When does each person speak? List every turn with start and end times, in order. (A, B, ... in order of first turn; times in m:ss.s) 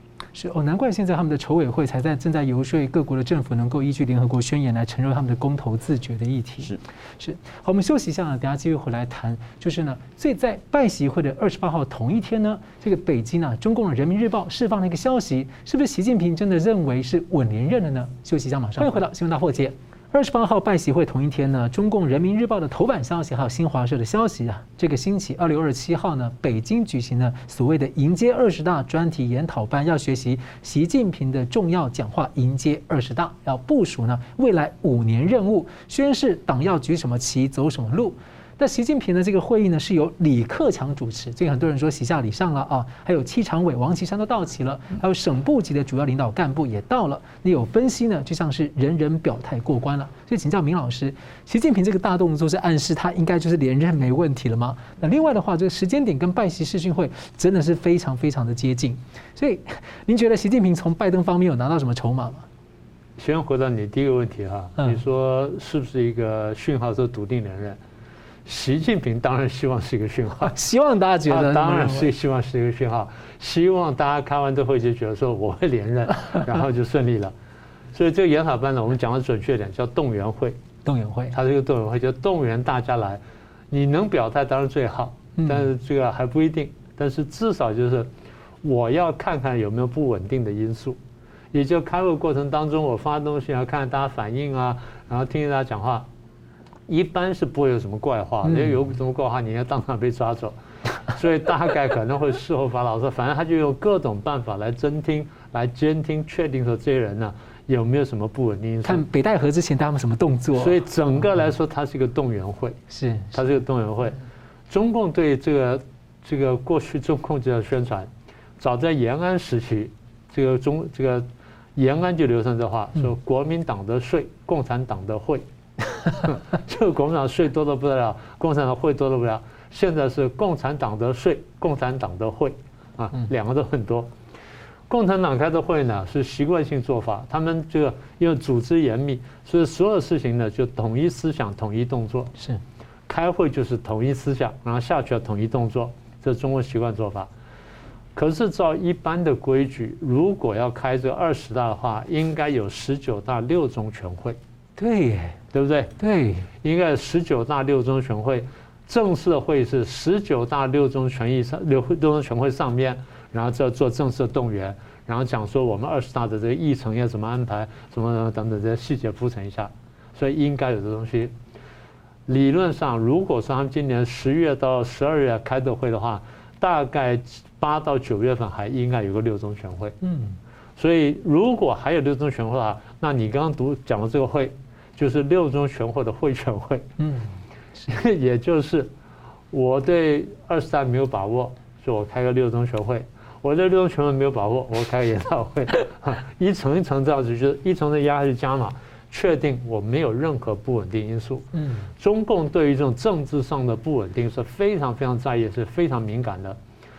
0:00.3-1:02.4 A
1:03.2-1:07.8 B
1:08.4-1:10.5 B
1:10.4-1:12.1 A
1:11.3-1:17.3 B
1:17.9-1:20.6 B
1:20.8-1:21.4 A
1:21.3-1:28.1 B
1:25.4-1:25.7 A
1:28.6-1:31.0 B
1:31.5-1:36.1 B
1:36.9-1:49.0 B
1:38.4-1:38.7 A
1:48.8-1:50.8 A
1:50.6-1:52.8 B
1:52.9-1:53.4 A
1:53.3-1:54.2 B
1:54.7-1:58.1 B
1:58.6-2:14.1 B
2:14.9-2:22.4 B
2:23.1-2:27.3 B
2:28.1-2:34.4 B
2:34.8-2:35.4 A
2:35.5-2:35.9 B
2:36.0-2:36.5 A
2:36.6-2:51.3 B
2:52.3-3:00.0 B
3:00.0-3:00.4 A
3:00.8-3:06.9 B
3:07.0-3:07.3 A
3:07.9-3:08.9 B
3:09.5-3:26.6 B
3:21.6-3:21.9 A